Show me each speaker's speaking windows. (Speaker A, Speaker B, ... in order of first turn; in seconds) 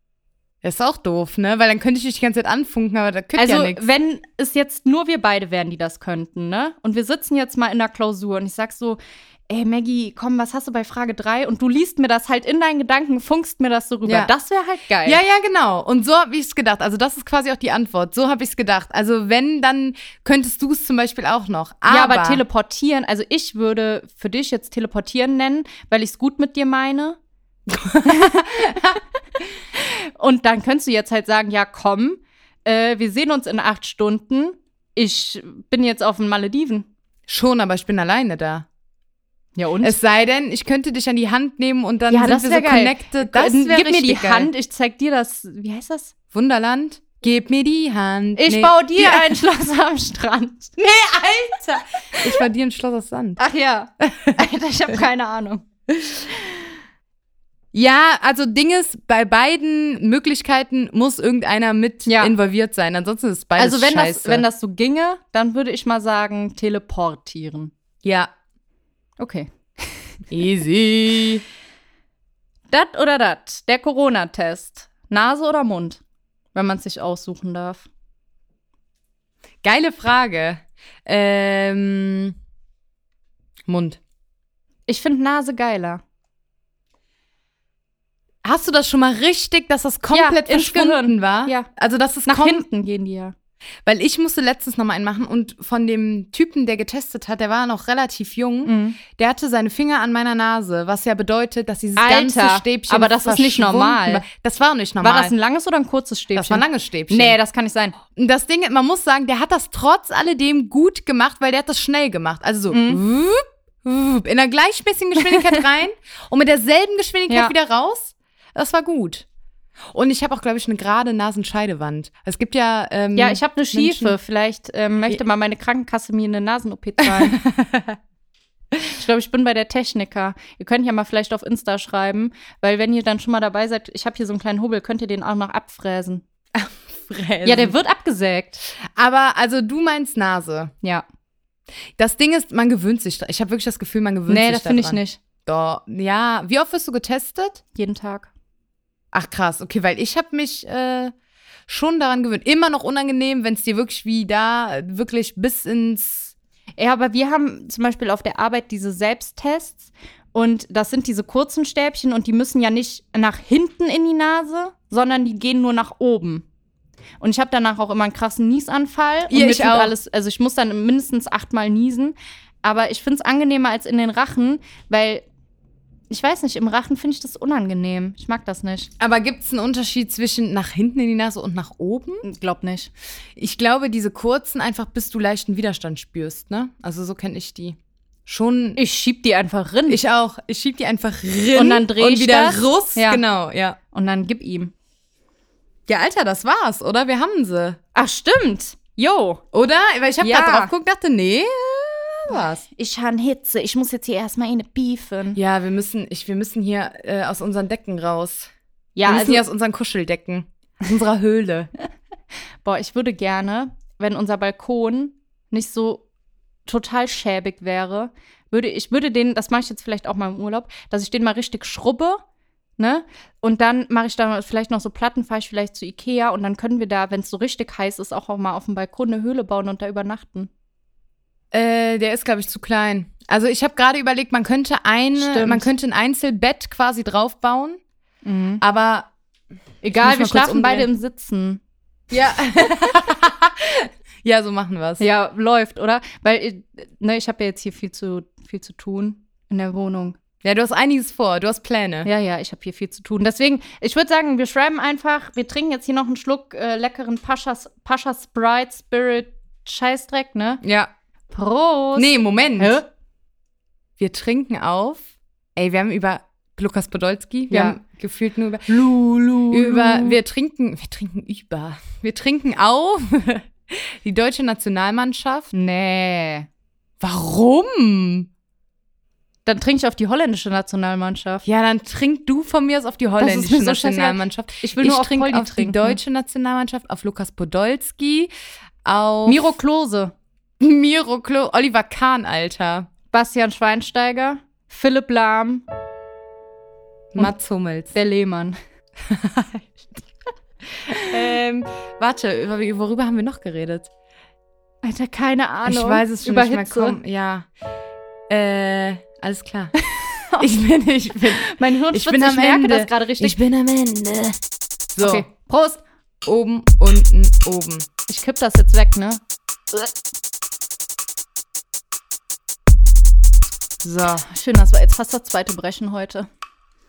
Speaker A: 0.6-3.8, 14.1-14.3, 15.1-22.4, 27.7-29.0, 37.3-38.7, 39.8-44.5, 46.3-49.4, 50.8-53.4, 54.0-54.4, 57.7-64.5, 68.0-68.3, 70.3-71.4, 79.6-82.3, 83.7-84.0, 88.4-92.7, 93.9-105.3, 106.3-107.4, 108.2-119.3, 119.9-124.2, 127.0-128.0, 136.6-137.8, 138.8-140.7, 142.0-147.6, 149.1-151.1, 151.7-156.3, 169.3-169.9, 179.0-182.2, 183.4-188.8, 189.9-193.8, 195.9-197.8, 199.5-202.6, 205.4-208.5, 209.1-211.7, 231.5-237.8, 238.6-239.1, 240.0-240.9, 242.1-245.0, 250.4-252.1, 260.6-260.9, 261.9-262.8, 264.0-268.8, 269.5-275.5, 277.0-278.3, 281.4-288.3, 288.9-289.5, 290.6-292.9, 297.1-297.9, 299.1-299.7, 300.9-303.9, 305.6-307.5, 308.3-309.7, 310.4-314.3, 314.9-315.3, 316.2-317.9, 323.8-324.3
Speaker B: 3.4-15.2, 21.9-27.2, 28.1-28.9, 29.8-36.9, 39.6-40.0, 42.1-46.1, 48.4-50.8, 52.1-52.4, 53.4-55.6, 62.1-62.4, 63.6-67.7, 69.2-69.5, 72.7-76.0, 76.5-77.9, 84.9-86.0, 90.1-91.7, 92.3-93.3, 98.7-99.0, 102.0-104.2, 105.0-108.0, 112.7-113.0, 115.2-115.6, 123.2-127.4, 128.9-136.2, 137.4-138.7, 144.3-145.2, 147.8-148.3, 156.8-166.4, 167.2-175.2, 176.1-178.9, 182.2-182.9, 188.8-190.0, 191.6-193.2, 193.9-194.7, 197.9-199.4, 200.2-200.7, 202.8-205.4, 208.9-209.4, 212.6-216.0, 216.7-222.2, 222.8-230.5, 235.2-235.7, 238.2-238.6, 239.8-241.6, 245.0-250.2, 252.0-260.6, 261.3-262.9, 267.5-267.8, 268.7-270.2, 275.5-276.5, 279.5-281.4, 283.2-286.0, 289.3-290.1, 293.1-295.6, 297.9-298.6, 304.8-307.0, 309.8-310.5, 311.2-313.4, 315.0-315.8, 318.1-319.2, 324.3-326.3